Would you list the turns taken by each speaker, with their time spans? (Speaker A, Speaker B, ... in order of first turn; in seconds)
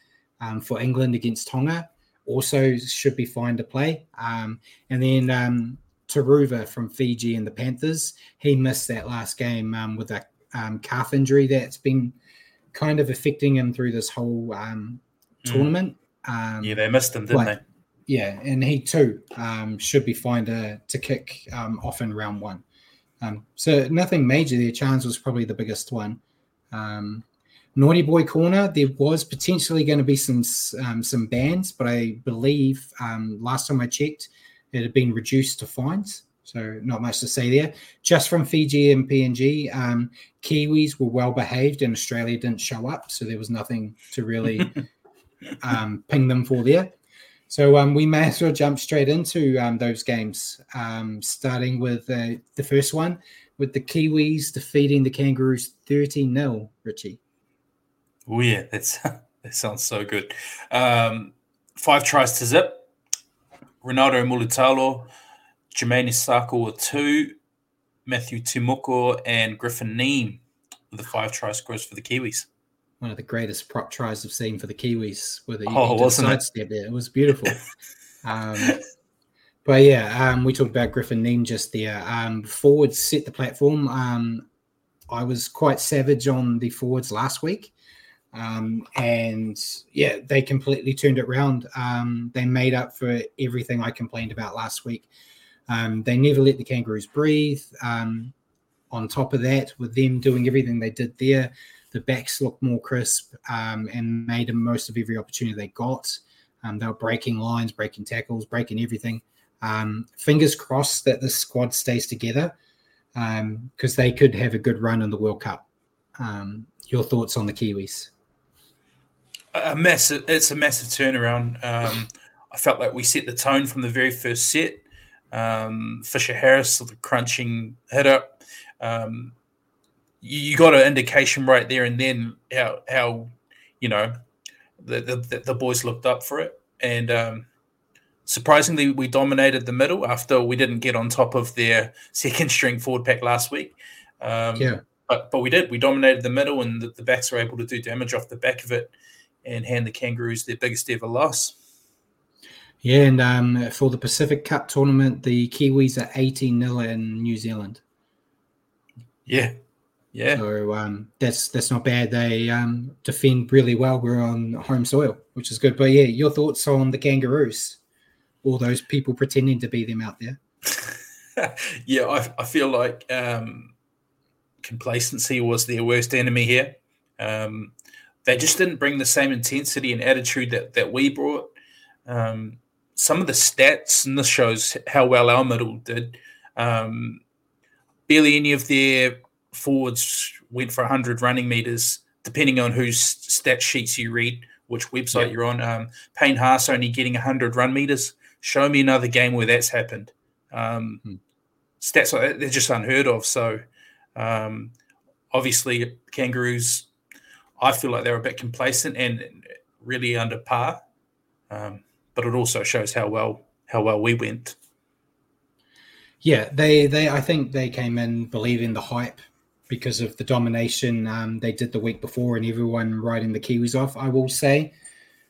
Speaker A: 0.4-12.1, 12.7-17.6, 18.1-22.6, 23.2-26.2, 26.7-44.8, 45.6-46.9, 47.5-57.2, 73.0-77.6, 78.2-78.8, 79.6-84.4, 85.1-87.7, 88.3-95.1, 95.7-98.3, 98.9-112.5, 113.1-115.6, 116.2-118.1, 144.6-144.8, 152.8-157.8, 160.3-167.8, 168.4-170.4, 216.2-224.7
Speaker B: 15.4-15.7, 16.6-17.6, 58.2-62.9, 63.8-65.1, 65.7-67.4, 68.0-72.5, 75.7-76.4, 119.5-129.3, 130.2-134.2, 134.8-137.5, 138.2-148.9, 149.4-151.6, 159.2-159.5, 160.1-160.4, 170.8-173.7, 174.6-177.7, 178.2-181.5, 182.1-187.2, 188.1-201.0, 201.8-203.6, 204.1-204.7, 205.3-206.9, 207.6-210.8, 211.5-214.6